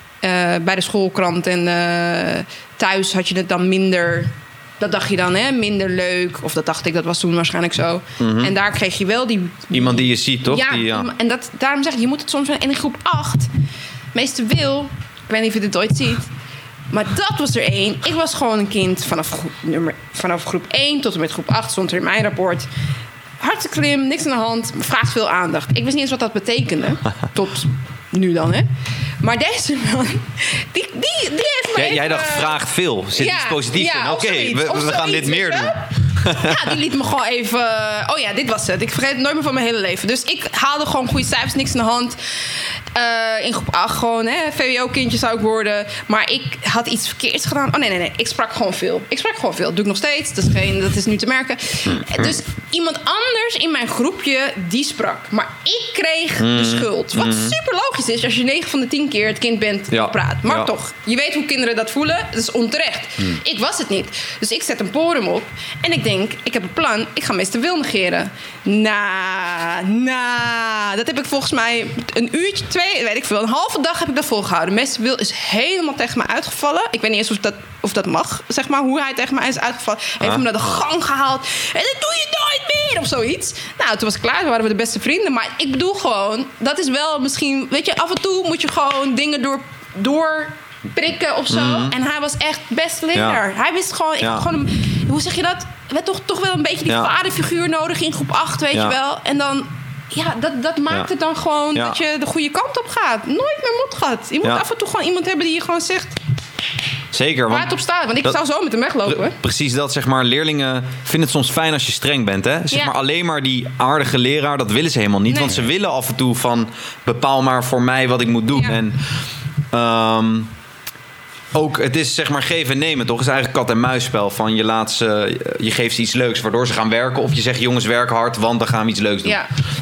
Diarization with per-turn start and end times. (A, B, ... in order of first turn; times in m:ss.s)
0:00.2-0:13.5 A
0:08.2-0:08.5 B
0:09.7-0:11.1 B
0:14.1-0:16.3 A
0:16.9-0:22.7 A
0:23.4-0:28.7 A
0:29.2-0:32.6 A
0:31.8-0:36.6 B
0:33.1-1:46.2 A
0:51.9-0:52.3 B
0:56.4-0:57.5 B
0:59.9-1:00.7 B
1:31.5-1:31.9 B
1:47.1-1:47.7 B
1:47.5-1:49.4 A
1:49.1-1:59.0 B
1:59.7-2:00.5 B
2:01.5-2:09.4 B
2:09.2-2:09.5 A